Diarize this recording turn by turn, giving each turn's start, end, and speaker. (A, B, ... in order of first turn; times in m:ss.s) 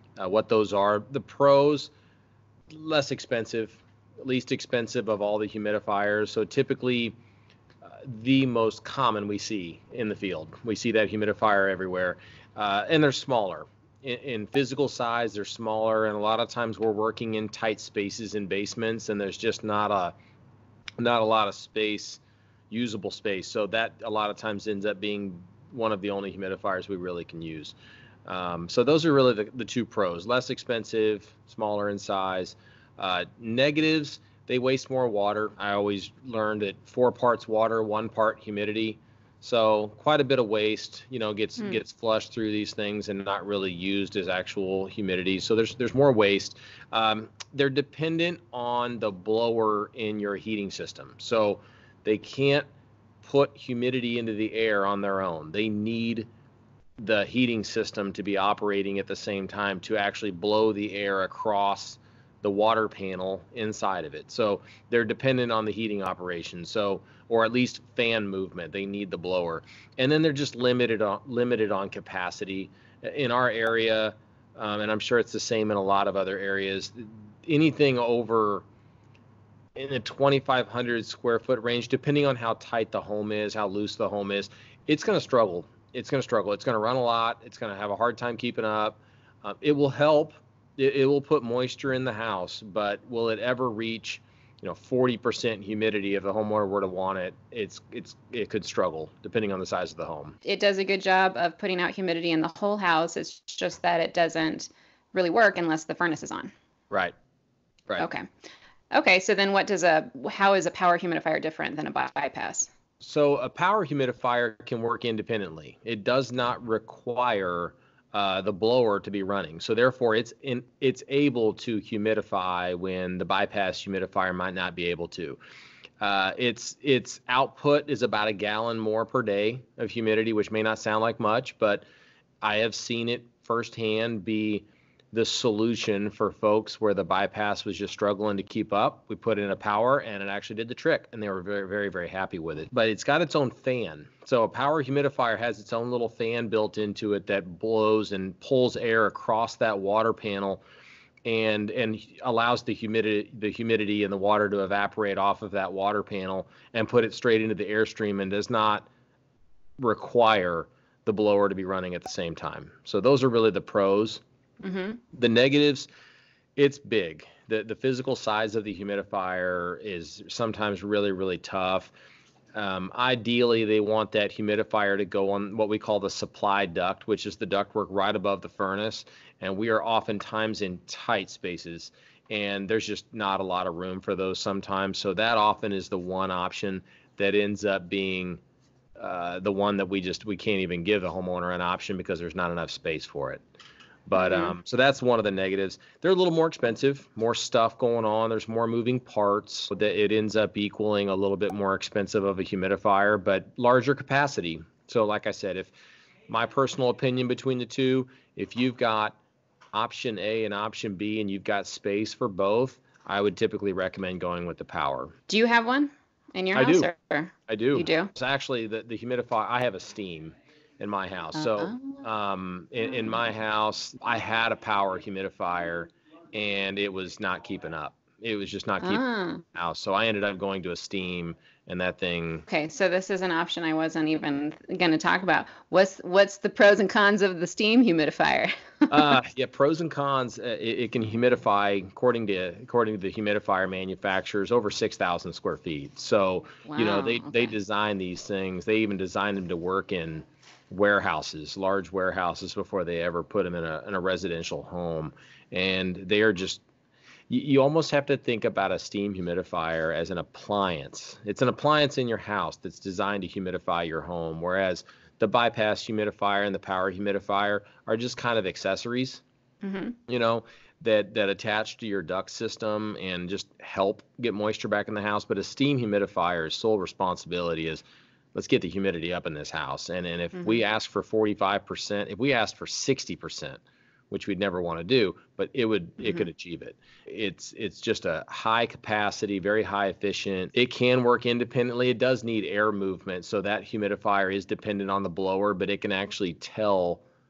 0:00.2-0:01.9 A
0:02.7-0:07.2 A
0:07.8-0:20.2 A
0:21.0-0:52.7 A
0:53.2-0:56.3 A
0:57.0-1:18.6 A
1:19.8-1:40.4 A
1:40.4-1:46.5 B
1:48.0-1:48.2 B
1:48.9-1:52.7 B
1:53.0-2:05.4 A
2:06.0-2:11.9 A
2:12.4-2:30.6 A
2:31.2-2:38.9 A
2:39.8-2:44.2 A
2:44.6-2:45.0 B
2:45.1-2:45.9 A
2:46.6-2:51.9 A
2:52.5-3:08.4 A
3:09.0-3:13.4 A
3:14.1-3:25.7 A
3:14.2-3:14.6 B
3:26.3-3:29.2 A
3:29.7-3:35.2 A
3:35.3-3:38.1 B
3:36.6-3:36.9 A
3:37.5-3:49.0 A
3:41.3-3:42.0 B
3:48.8-3:49.4 B
3:49.5-3:52.5 A
3:52.5-3:59.1 B
3:58.9-4:16.6 A
4:06.7-4:07.5 B
4:17.3-4:29.2 A
4:29.6-4:30.0 B
4:30.1-4:57.0 A